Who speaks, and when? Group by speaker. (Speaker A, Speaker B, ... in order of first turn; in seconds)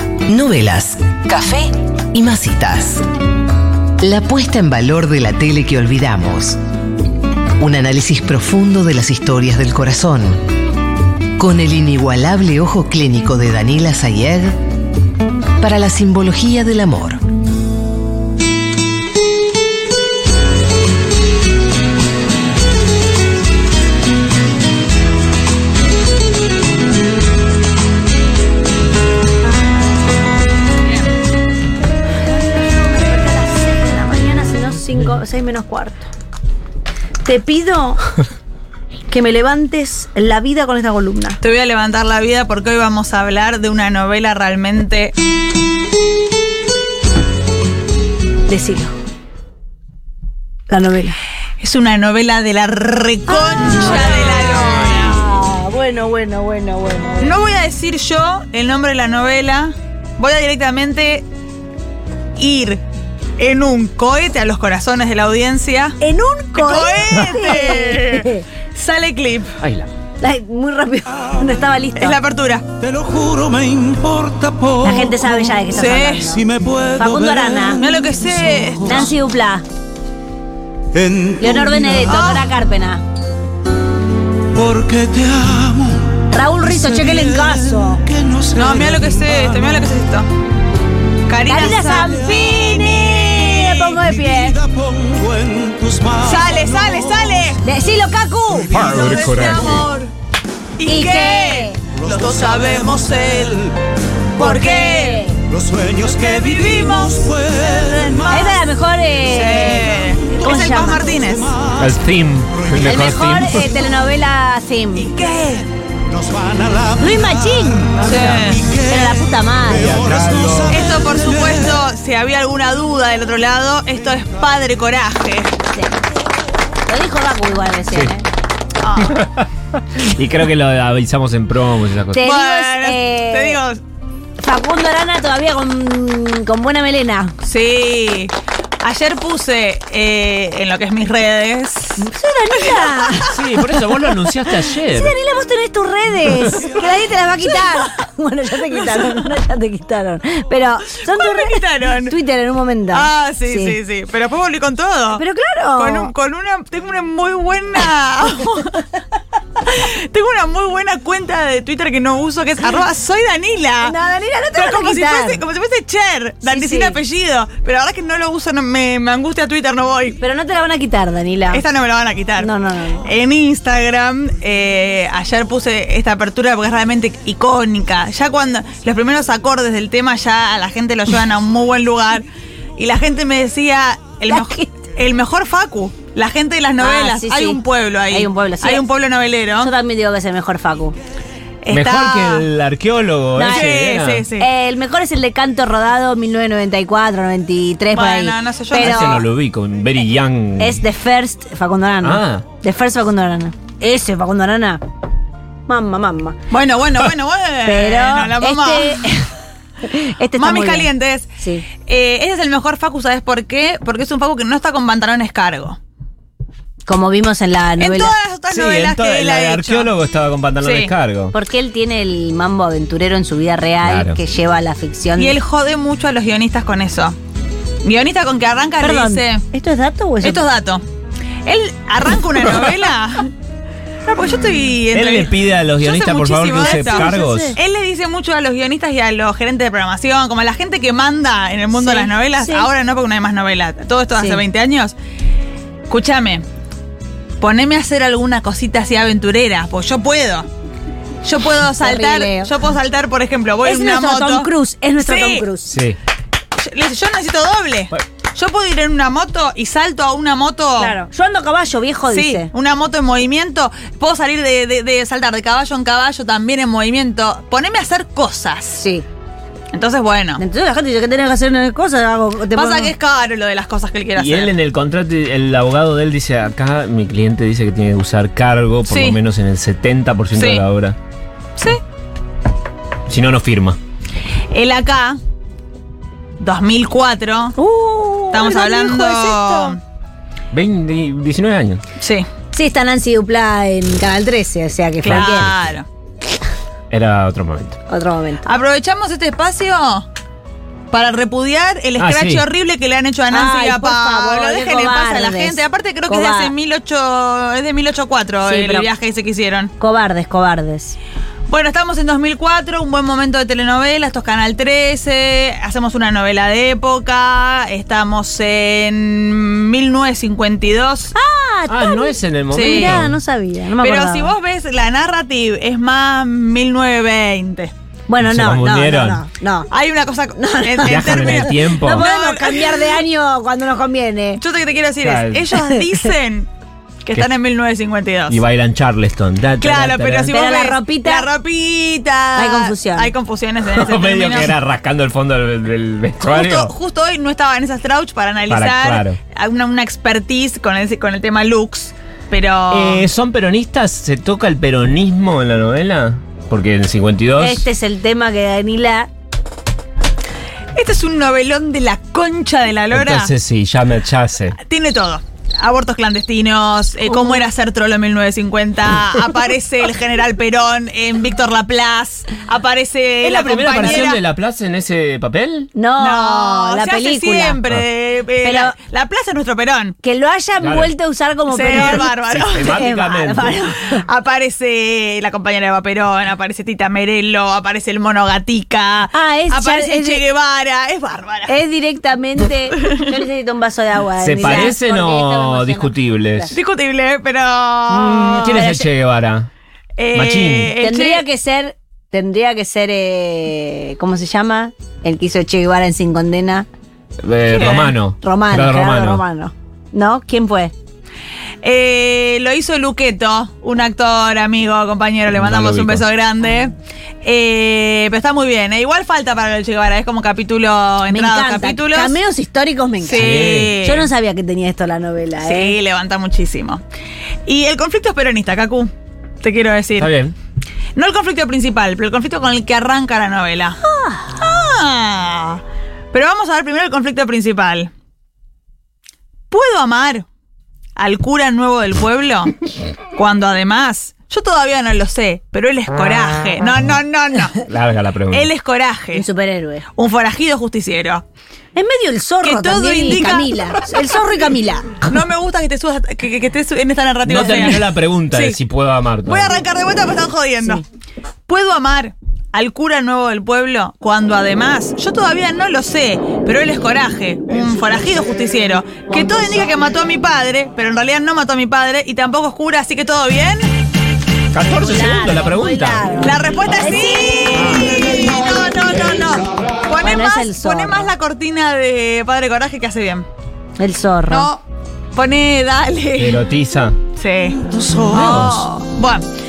Speaker A: 0.3-3.0, 4.0-6.6, 7.6-10.4, 11.4-14.6, 15.6-17.2
Speaker B: 32.2-36.1, 37.2-38.0, 39.1-41.4, 48.5-48.9, 50.7-51.2, 53.3-57.3, 66.0-68.4, 70.2-72.2, 74.8-76.4, 77.0-77.8, 78.8-79.6, 81.4-83.0, 86.3-88.0, 91.5-94.5, 97.6-98.8, 100.8-101.8, 104.4-105.3, 108.3-111.1, 112.8-115.1, 117.0-117.9, 118.8-120.0, 126.9-128.2, 132.1-133.6, 134.4-137.3, 142.0-143.4, 144.9-153.8, 155.2-156.1, 163.8-165.4, 166.4-167.0, 170.2-171.6, 172.4-173.1, 184.3-184.7, 186.8-188.8, 189.6-190.9, 193.3-193.7, 194.4-199.2, 200.6-204.8, 205.7-206.4, 207.7-209.3, 209.8-210.9, 211.4-211.7, 216.9-218.1, 221.3-225.4, 228.8-230.4, 236.8-237.6, 241.7-242.7, 244.2-244.4, 251.8-252.5, 253.6-255.8, 260.8-262.5, 268.8-269.0, 270.4-272.9, 287.6-289.8, 292.5-295.5, 297.9-298.5, 303.3-306.5, 308.4-308.9, 309.8-310.9, 321.1-324.3, 328.1-329.7, 330.4-334.4, 340.3-341.3, 342.4-343.1, 357.4-359.1, 373.8-374.1, 375.8-377.6, 378.4-378.7, 380.0-384.0, 389.1-390.2, 391.5-396.6, 398.5-398.8, 400.8-406.6, 408.2-410.7, 421.1-425.8, 433.8-434.4, 449.1-449.8, 451.7-455.1, 474.8-478.6, 480.0-481.1, 483.8-484.5
Speaker C: 41.4-45.1, 51.6-55.2, 57.2-61.2, 62.4-62.8, 63.4-66.0, 66.5-69.5, 72.0-72.7, 75.7-76.3, 77.8-79.1, 82.1-82.5, 88.5-90.3, 91.3-93.9, 96.2-97.6, 98.8-100.1, 100.8-103.6, 104.4-105.2, 106.0-108.6, 109.3-111.5, 115.0-115.7, 118.0-118.6, 120.7-125.5, 128.8-129.2, 132.2-133.8, 137.4-143.1, 147.6-147.9, 151.0-152.1, 152.9-155.2, 155.8-158.8, 159.6-163.9, 164.5-170.2, 171.5-172.5, 173.0-182.2, 182.8-189.7, 191.6-192.4, 193.5-194.5, 197.9-199.2, 206.5-209.0, 210.4-211.3, 211.8-215.8, 217.8-219.9, 220.6-220.9, 225.2-227.2, 227.8-229.4, 230.2-230.8, 231.4-233.3, 234.1-244.9, 245.9-246.4, 247.4-250.5, 251.2-254.5, 255.0-255.4, 256.6-260.9, 262.1-268.8, 269.7-270.4, 272.5-274.5, 278.9-279.2, 280.4-280.6, 284.5-285.2, 286.4-287.6, 288.3-289.8, 292.0-292.3, 295.0-295.9, 298.4-300.1, 300.9-309.7, 311.5-321.1, 322.5-323.0, 323.8-327.7, 329.7-333.0, 334.4-336.5, 337.0-338.4, 339.6-344.5, 346.2-353.1, 360.8-363.3, 364.6-374.2, 376.0-379.9, 381.5-382.8, 383.9-391.5, 396.5-398.7, 400.0-401.2, 407.5-407.9, 411.6-422.1, 423.0-424.1, 425.4-426.8, 427.4-428.9, 429.4-430.1, 430.9-433.8, 434.4-437.9, 439.5-440.2, 440.9-442.5, 443.1-447.6, 448.3-449.2, 450.0-451.2, 452.4-453.5, 455.0-458.6, 459.2-460.8, 461.5-473.6, 476.2-483.3, 484.3-484.6, 485.1-486.4, 487.2-489.2
Speaker D: 69.6-69.9, 98.7-99.8, 111.8-113.6, 118.0-118.4, 119.8-120.8, 129.0-132.2, 143.3-145.1, 191.7-194.2, 198.7-200.8, 202.0-202.4, 218.5-221.3, 223.8-224.2, 234.9-237.6, 255.7-256.0, 274.1-281.0, 283.1-283.8, 290.5-291.8, 295.0-295.7, 296.9-297.8, 302.0-302.4, 321.7-323.1, 328.2-329.2, 330.8-332.1, 335.0-335.5, 338.3-340.4, 343.6-346.7, 348.5-349.2, 352.7-357.6, 362.9-364.6, 373.2-375.7, 380.6-380.9, 381.7-383.5, 394.2-396.5, 397.9-399.5, 400.1-400.7, 407.2-409.2, 415.3-416.0, 423.1-423.8, 430.0-430.3, 447.6-448.5, 457.2-459.6, 474.5-476.1, 477.5-478.2, 486.1-487.0, 488.1-488.7
Speaker E: 72.8-75.7, 76.3-79.1, 80.9-82.4, 84.5-89.9, 92.0-92.5, 93.9-97.6, 98.5-99.5, 102.0-103.7, 105.5-108.5, 111.3-111.7, 116.1-121.8, 487.7-488.1